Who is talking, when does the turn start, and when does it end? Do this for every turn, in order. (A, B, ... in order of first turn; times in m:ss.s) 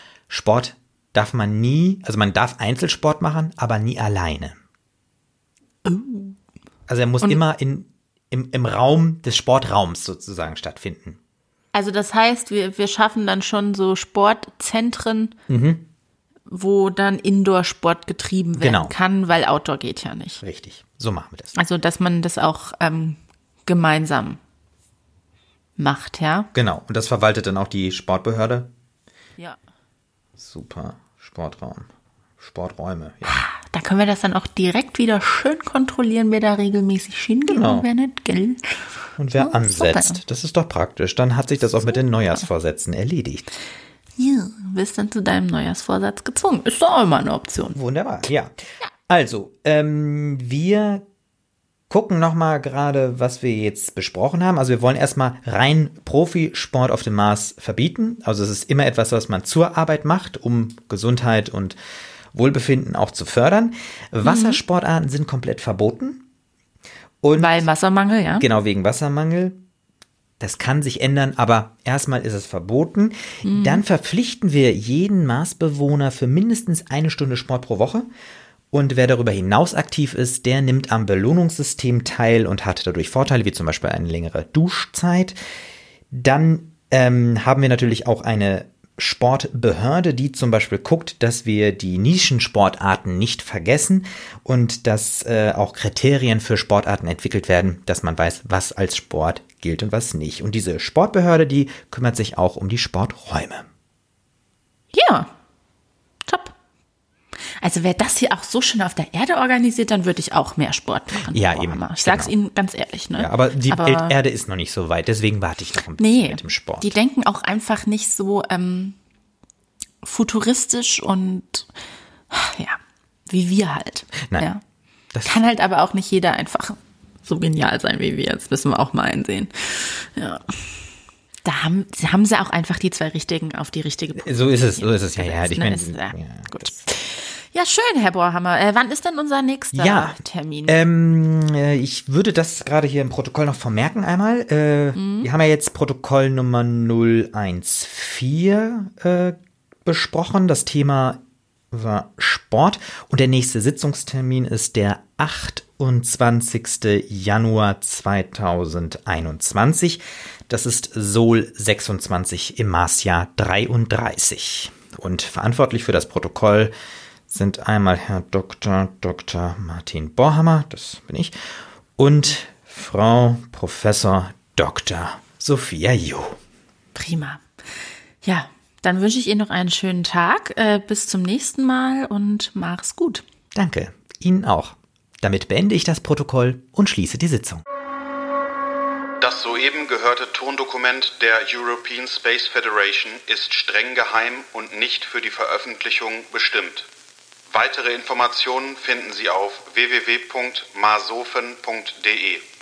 0:00.3-0:04.6 A
0:05.8-0:06.4 B
0:06.9-0:11.2 A
0:11.7-0:15.3 B
0:15.5-0:15.9 A
0:16.5-0:20.4 B
0:18.6-0:18.9 A
0:20.4-0:21.6 A
0:21.5-0:24.4 B
0:25.8-0:26.5 B
0:26.5-0:28.7 A
0:30.4-0:31.9 A
0:32.4-0:33.4 A
0:33.2-0:40.2 B
0:37.5-0:37.9 A
0:39.2-0:43.5 A
0:44.2-0:47.8 B
0:47.7-0:48.5 A
0:49.1-0:51.0 A
0:51.9-1:01.8 A
1:02.3-1:06.2 A
1:04.2-1:04.6 B
1:07.2-1:07.6 A
1:07.4-1:08.4 B
1:08.3-1:09.6 A
1:10.4-1:18.1 A
1:13.4-1:13.8 B
1:18.7-1:25.4 A
1:26.1-1:43.6 A
1:44.9-1:45.3 B
1:46.2-1:46.5 B
1:47.6-1:54.2 B
1:51.2-1:52.3 A
1:53.2-1:56.9 A
1:56.0-1:59.0 B
2:00.0-2:01.7 B
2:02.3-2:04.6 B
2:05.1-2:05.4 A
2:05.2-2:10.7 B
2:11.4-2:20.8 B
2:14.2-2:16.7 A
2:19.7-2:31.2 A
2:24.9-2:25.3 B
2:31.7-2:46.7 A
2:47.3-2:51.3 A
2:52.0-2:56.4 A
2:56.9-2:57.4 B
2:58.2-3:03.2 B
3:03.5-3:07.6 A
3:09.2-3:16.9 C
3:17.5-3:22.4 C